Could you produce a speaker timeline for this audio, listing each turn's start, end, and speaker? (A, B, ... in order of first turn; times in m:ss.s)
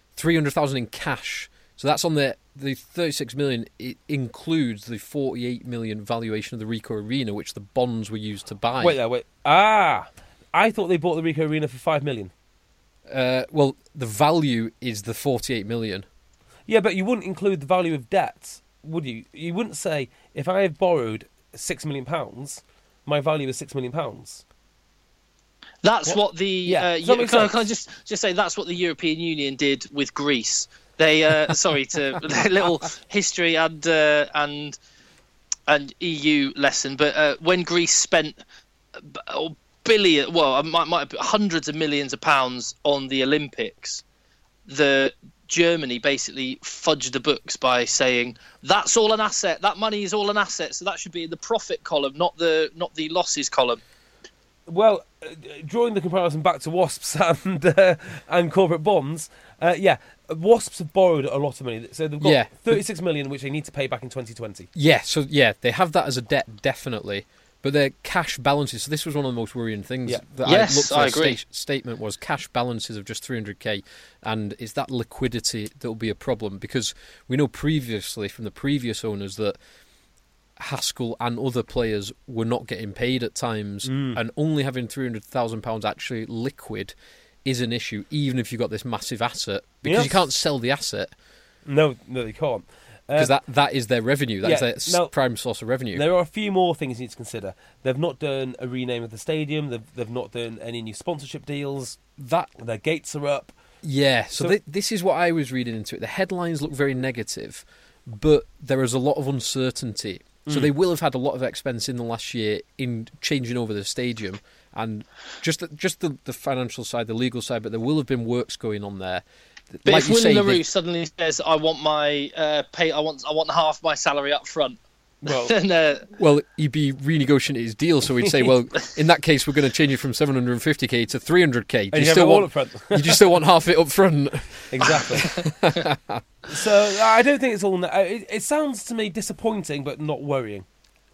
0:00.2-0:09.0 A
0:08.8-0:12.3 B
0:13.1-0:16.0 A
0:16.7-0:24.4 B
0:25.8-0:34.8 C
0:26.6-0:27.6 B
0:35.7-0:38.4 C
0:39.0-0:44.0 C
0:44.6-0:53.8 C
0:54.7-1:04.7 B
1:02.2-1:02.8 A
1:04.7-1:19.6 A
1:10.4-1:11.4 C
1:20.6-1:26.9 A
1:23.8-1:24.2 B
1:27.4-1:31.1 A
1:29.8-1:30.2 B
1:31.6-1:33.3 B
1:33.1-1:36.0 A
1:34.4-1:35.1 B
1:35.9-1:42.0 B
1:42.2-1:42.5 A
1:42.6-1:43.5 B
1:43.8-1:59.2 A
1:59.7-2:00.6 A
1:59.8-2:04.8 C
2:05.2-2:05.5 B
2:05.3-2:06.1 C
2:06.1-2:16.2 A
2:11.9-2:13.3 B
2:14.7-2:15.3 B
2:15.1-2:15.5 C
2:16.5-2:20.6 B